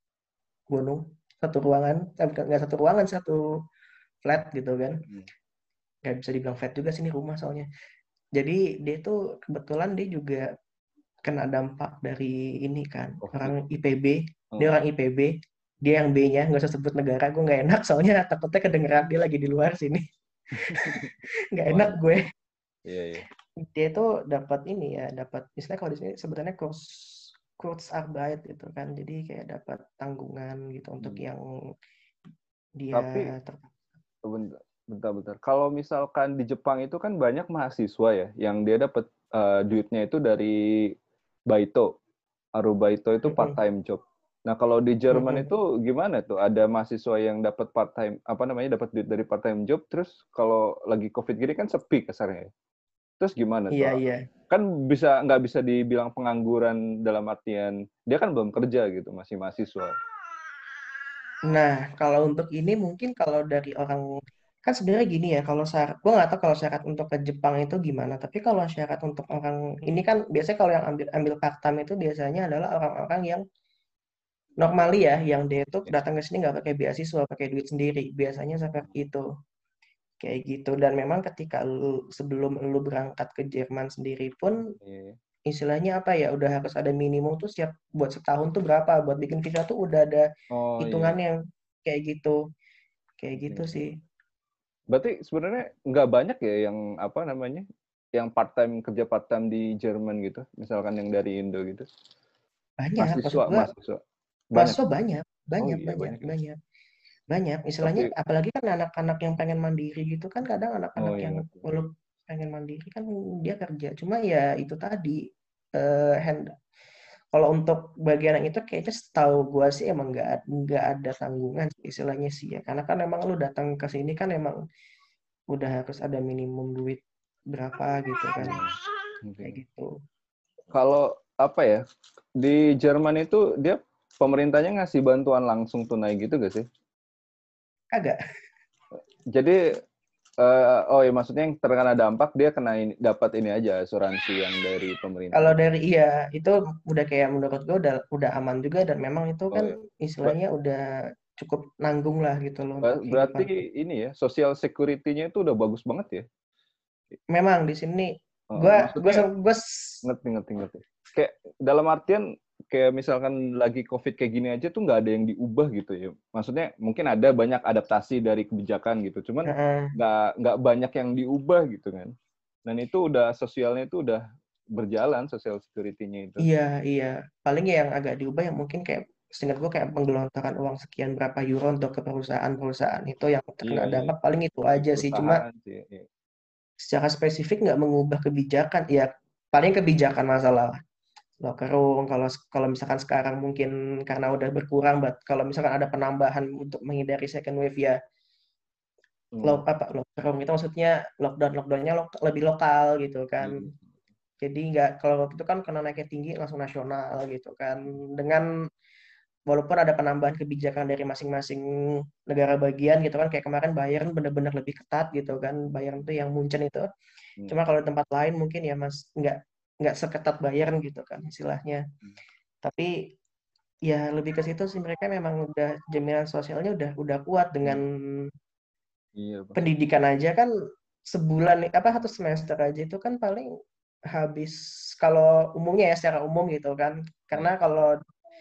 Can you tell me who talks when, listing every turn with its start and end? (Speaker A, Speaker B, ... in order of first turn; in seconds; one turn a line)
Speaker A: 0.7-3.4
Speaker A: 4.2-5.0
Speaker A: 6.0-7.7
Speaker A: 8.4-10.5
Speaker A: 11.3-15.3
Speaker B: 13.2-13.5
Speaker A: 15.8-20.0
Speaker A: 20.7-22.2
Speaker B: 20.7-21.1
Speaker B: 21.7-22.0
Speaker B: 22.8-23.2
Speaker A: 23.6-31.4
Speaker A: 32.8-33.7
Speaker B: 32.9-33.3
Speaker B: 34.2-40.9
Speaker B: 41.5-41.9
Speaker B: 42.6-52.5
Speaker A: 43.3-43.5
Speaker A: 45.1-45.5
Speaker B: 53.2-54.0
Speaker A: 53.7-54.2
Speaker B: 54.5-59.9
Speaker A: 61.5-64.0
Speaker A: 64.6-73.4
Speaker A: 74.6-79.2
Speaker A: 80.2-84.6
Speaker B: 84.8-85.2
Speaker A: 85.5-90.3
Speaker B: 90.5-91.1
Speaker A: 90.8-92.4
Speaker A: 93.2-94.0
Speaker B: 93.5-93.8
Speaker B: 94.9-97.6
Speaker B: 98.2-101.8
Speaker A: 102.8-103.7
Speaker B: 103.0-104.0
Speaker B: 104.5-104.8
Speaker A: 104.5-106.5
Speaker B: 105.6-106.3
Speaker A: 107.3-115.2
Speaker B: 107.8-108.1
Speaker B: 111.0-111.7
Speaker A: 115.8-116.5
Speaker A: 117.3-124.6
Speaker A: 125.5-128.6
Speaker B: 128.4-128.7
Speaker B: 129.2-129.6
Speaker A: 129.4-129.9
Speaker B: 130.7-131.8
Speaker B: 132.4-136.6
Speaker A: 137.9-138.2
Speaker B: 139.3-139.6
Speaker B: 140.4-145.6
Speaker A: 145.3-150.8
Speaker B: 149.5-150.3
Speaker A: 151.3-153.5
Speaker B: 152.8-156.2
Speaker A: 157.3-159.9
Speaker B: 158.5-159.2
Speaker B: 160.0-172.1
Speaker A: 169.4-169.9
Speaker B: 172.7-174.2
Speaker B: 174.7-176.4
Speaker A: 176.4-185.4
Speaker B: 183.6-184.1
Speaker B: 184.7-186.1
Speaker A: 186.8-190.7
Speaker A: 191.4-198.0
Speaker B: 199.3-199.6
Speaker A: 199.4-203.7
Speaker B: 203.4-203.8
Speaker A: 204.4-208.5
Speaker A: 209.5-211.6
Speaker A: 212.3-216.8
Speaker A: 217.5-221.8
Speaker A: 222.6-222.9
Speaker A: 223.9-227.9
Speaker B: 229.2-229.6
Speaker A: 229.6-230.5
Speaker A: 231.1-233.5
Speaker A: 234.1-238.0